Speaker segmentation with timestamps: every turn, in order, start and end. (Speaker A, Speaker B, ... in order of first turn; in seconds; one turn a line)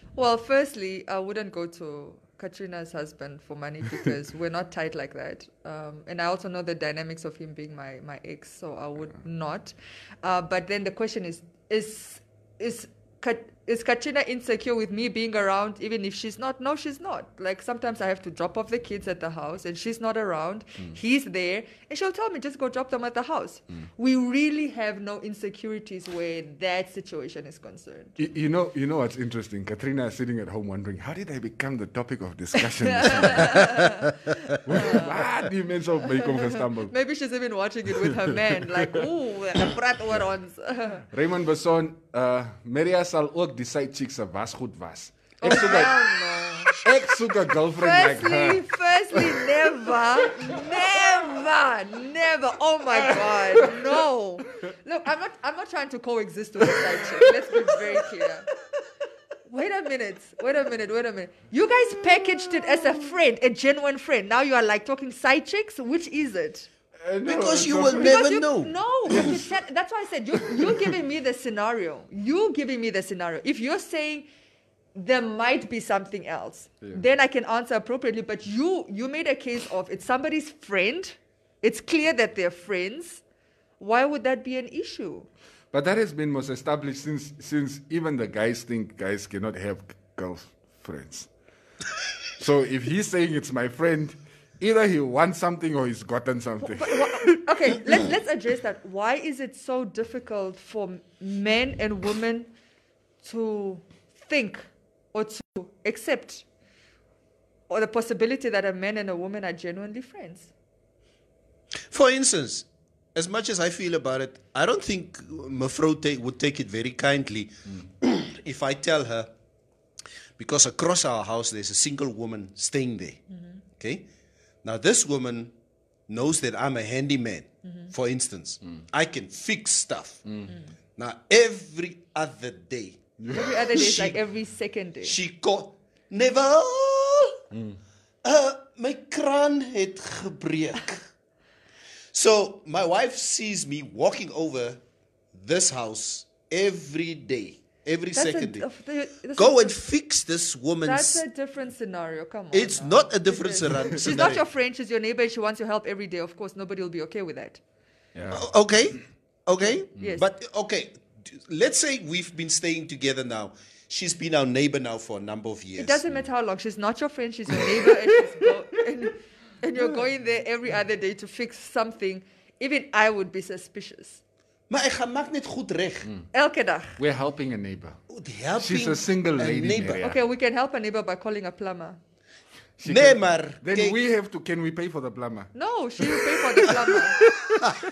Speaker A: 0.1-28.1
Speaker B: 28.2-33.8
Speaker A: 32.8-34.1
Speaker B: 34.6-36.9
Speaker A: 34.7-35.3
Speaker A: 36.2-41.0
Speaker B: 41.1-46.2
Speaker A: 45.4-46.8
Speaker B: 46.7-49.4
Speaker A: 47.8-58.5
Speaker B: 50.4-50.6
Speaker B: 53.2-53.9
Speaker A: 59.5-66.7
Speaker B: 67.0-68.3
Speaker C: 67.2-69.3
Speaker A: 67.9-74.2
Speaker B: 69.1-69.4
Speaker A: 74.9-83.2
Speaker A: 83.8-85.3
Speaker B: 85.7-91.3
Speaker B: 92.4-97.4
Speaker A: 96.6-102.5
Speaker A: 103.2-106.4
Speaker A: 107.7-110.5
Speaker C: 111.9-119.3
Speaker C: 120.4-123.2
Speaker A: 123.3-123.6
Speaker C: 123.8-124.0
Speaker C: 124.6-125.5
Speaker C: 126.1-130.2
Speaker A: 127.6-127.9
Speaker C: 131.0-133.0
Speaker B: 133.2-133.6
Speaker A: 133.3-135.2
Speaker C: 133.7-134.2
Speaker C: 135.0-137.4
Speaker B: 137.5-137.8
Speaker C: 138.2-141.0
Speaker C: 142.1-144.8
Speaker C: 145.3-148.7
Speaker A: 148.1-149.8
Speaker C: 149.4-151.2
Speaker A: 150.8-157.6
Speaker C: 152.5-154.4
Speaker B: 158.1-158.5
Speaker C: 158.3-166.0
Speaker A: 160.0-160.2
Speaker A: 165.8-174.2
Speaker C: 174.7-176.1
Speaker A: 176.3-177.0
Speaker B: 177.0-178.0
Speaker C: 178.1-180.0
Speaker B: 178.6-180.2
Speaker A: 179.9-182.0
Speaker B: 182.8-185.5
Speaker C: 182.8-184.0
Speaker A: 185.5-187.2
Speaker B: 186.1-187.7